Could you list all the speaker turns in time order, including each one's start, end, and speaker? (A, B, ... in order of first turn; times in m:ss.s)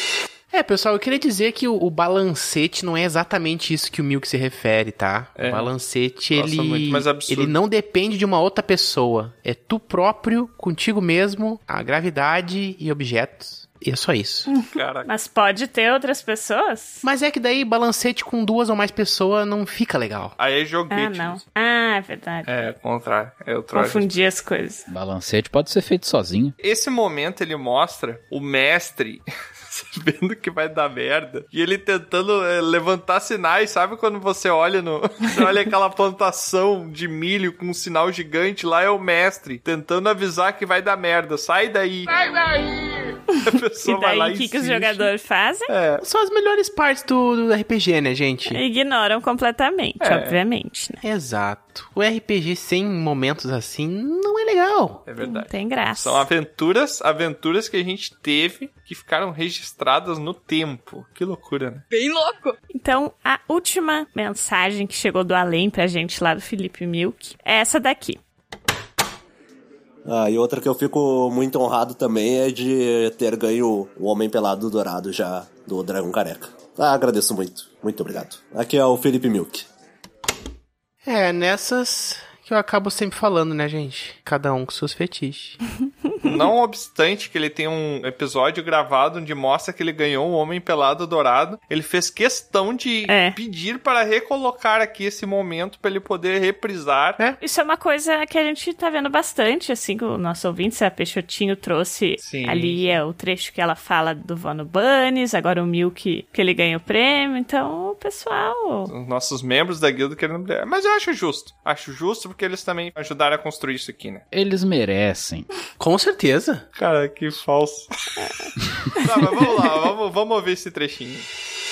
0:00.5-0:14.5 A
0:05.4-0:05.7 B
0:06.3-0:07.6 B
0:14.5-0:17.0 C
0:14.7-0:15.1 B
0:17.0-0:20.4 A
0:20.4-0:21.4 B
0:20.9-0:22.5 C
0:22.4-0:24.1 B
0:23.7-0:24.8 C
0:24.9-0:26.5 D
0:26.6-0:42.1 B
0:43.3-0:45.7 C
0:43.4-0:45.1 B
0:45.7-0:46.0 B
0:46.0-0:48.6 A
0:48.5-0:51.0 C
0:50.0-0:50.4 B
0:51.0-0:55.0 A
0:55.0-1:01.8 B
0:55.2-0:56.3 C
1:02.7-1:08.2 C
1:10.0-1:19.6 E
1:21.0-1:25.6 A
1:26.2-1:37.2 B
1:33.1-1:33.4 C
1:37.4-1:48.9 C
1:42.2-1:42.9 B
1:48.9-1:54.2 B
1:54.3-1:55.5 D
1:55.8-1:56.6 A
1:56.8-1:57.9 B
1:59.0-2:01.3 B